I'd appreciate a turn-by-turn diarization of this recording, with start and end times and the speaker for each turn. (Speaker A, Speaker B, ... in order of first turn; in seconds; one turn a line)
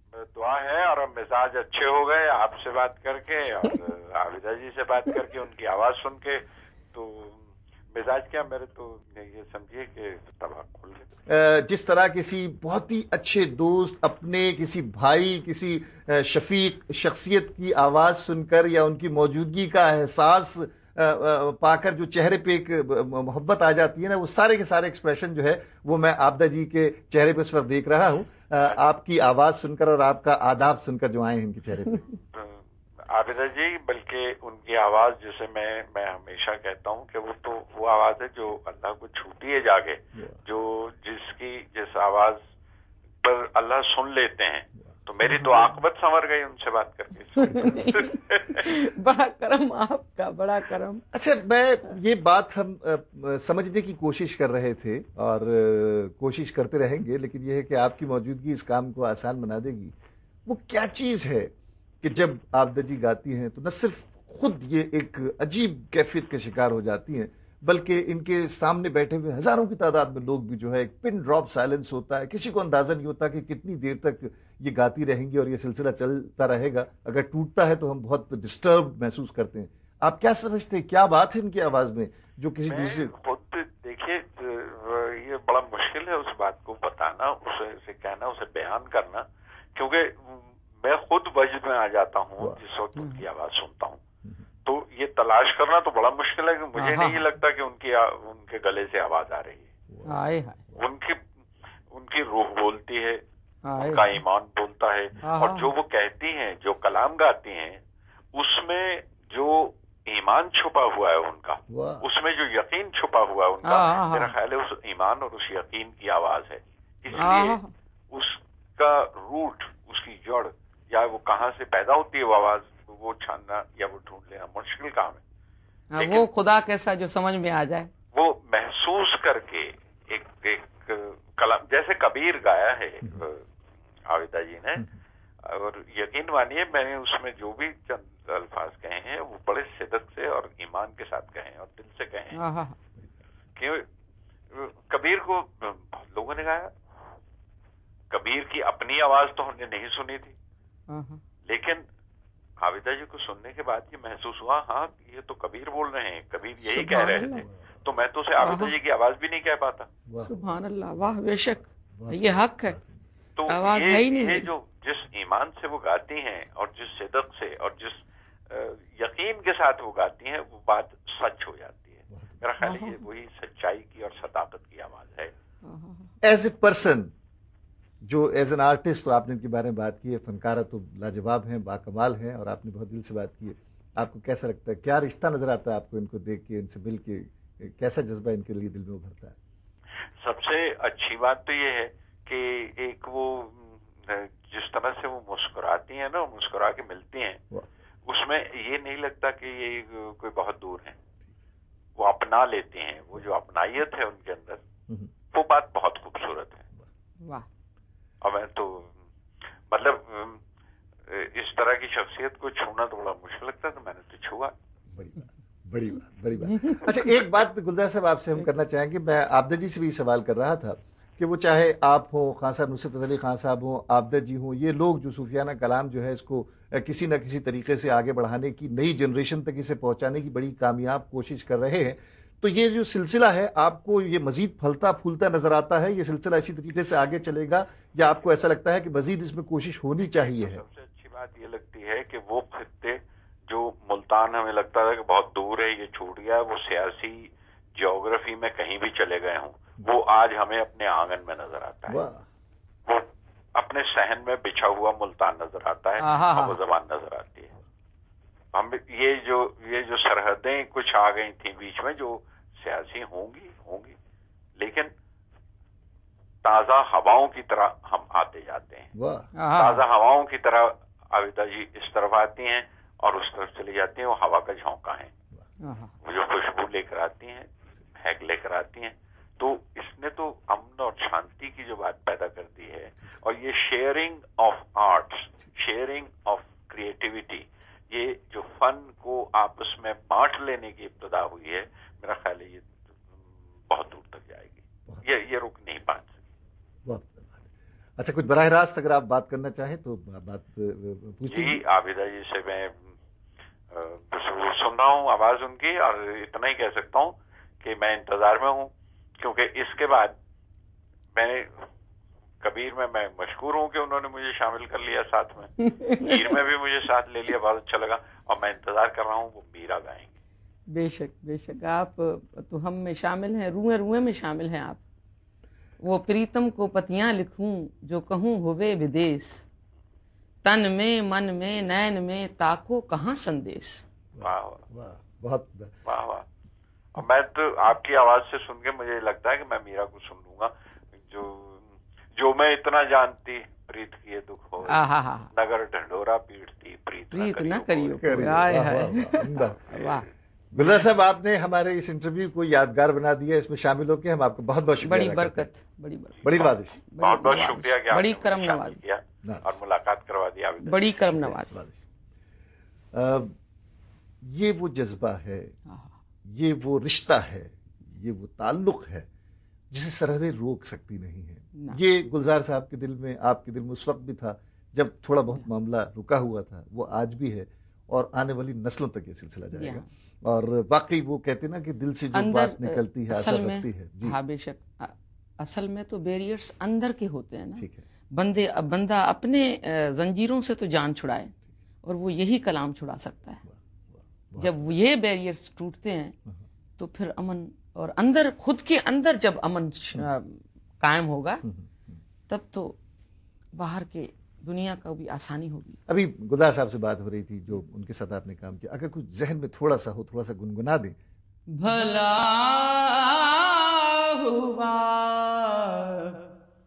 Speaker A: 0.1-11.1
Speaker B: 11.2-32.1
Speaker A: 28.6-28.9
Speaker A: 32.1-42.4
Speaker A: 43.2-48.7
Speaker C: 45.2-45.8
Speaker C: 47.4-51.0
Speaker B: 47.5-48.0
Speaker B: 51.1-59.9
Speaker B: 60.5-83.1
Speaker A: 82.7-94.0
Speaker C: 93.0-93.2
Speaker A: 94.7-99.7
Speaker C: 96.8-97.2
Speaker B: 99.9-100.8
Speaker C: 100.0-100.6
Speaker A: 100.8-101.2
Speaker A: 101.9-103.2
Speaker C: 103.6-104.2
Speaker A: 103.8-107.8
Speaker C: 105.2-105.7
Speaker A: 108.3-117.6
Speaker B: 111.7-112.1
Speaker C: 113.6-114.3
Speaker C: 117.2-117.7
Speaker A: 118.1-125.2
Speaker C: 125.9-127.9
Speaker A: 126.0-126.3
Speaker A: 128.1-133.5
Speaker A: 134.1-134.9
Speaker A: 135.4-142.4
Speaker C: 142.3-142.8
Speaker A: 143.6-143.8
Speaker A: 144.5-146.7
Speaker A: 148.1-150.3
Speaker C: 150.9-151.2
Speaker A: 151.5-151.8
Speaker A: 152.6-159.9
Speaker C: 156.7-157.5
Speaker B: 157.3-157.8
Speaker C: 158.4-158.8
Speaker B: 160.1-160.4
Speaker C: 160.2-162.8
Speaker B: 161.6-163.0
Speaker A: 163.3-175.3
Speaker C: 163.5-164.5
Speaker B: 172.1-172.4
Speaker C: 172.6-173.0
Speaker C: 175.6-176.1
Speaker B: 176.2-177.1
Speaker B: 178.0-189.4
Speaker A: 190.2-197.4
Speaker A: 198.1-201.0
Speaker A: 202.0-204.6
Speaker A: 205.3-206.7
Speaker C: 207.2-207.5
Speaker A: 208.2-208.9
Speaker A: 209.7-210.4
Speaker A: 211.1-214.5
Speaker B: 214.9-240.6
Speaker C: 216.5-216.9
Speaker A: 240.0-252.0
Speaker B: 251.9-252.3
Speaker A: 252.8-257.5
Speaker C: 256.0-256.6
Speaker A: 258.5-263.9
Speaker A: 264.6-264.9
Speaker A: 266.4-268.9
Speaker B: 268.9-269.3
Speaker C: 269.4-269.9
Speaker A: 269.5-275.1
Speaker C: 275.6-275.9
Speaker A: 276.0-292.8
Speaker A: 293.6-296.2
Speaker B: 296.9-301.6
Speaker A: 301.3-302.8
Speaker A: 303.7-310.1
Speaker A: 311.1-311.6
Speaker A: 312.4-320.1
Speaker C: 315.6-316.2
Speaker C: 320.7-324.8
Speaker C: 325.8-329.4
Speaker C: 330.4-333.8
Speaker B: 334.1-335.8
Speaker A: 334.2-334.6
Speaker A: 335.9-336.2
Speaker A: 336.9-348.4
Speaker C: 344.6-345.3
Speaker C: 347.1-350.9
Speaker B: 348.0-349.8
Speaker B: 350.5-355.5
Speaker C: 354.8-358.8
Speaker B: 356.2-356.8
Speaker A: 357.0-360.9
Speaker C: 360.6-361.5
Speaker B: 361.1-361.9
Speaker B: 362.9-363.4
Speaker B: 364.2-365.5
Speaker C: 365.7-365.9
Speaker B: 366.3-369.1
Speaker B: 369.7-384.2
Speaker C: 379.5-379.9
Speaker C: 382.1-393.4
Speaker B: 393.4-394.6
Speaker C: 394.4-396.1
Speaker C: 396.8-401.4
Speaker B: 401.4-402.0
Speaker C: 402.3-402.8
Speaker C: 403.5-405.8
Speaker B: 405.9-411.0
Speaker C: 411.5-416.2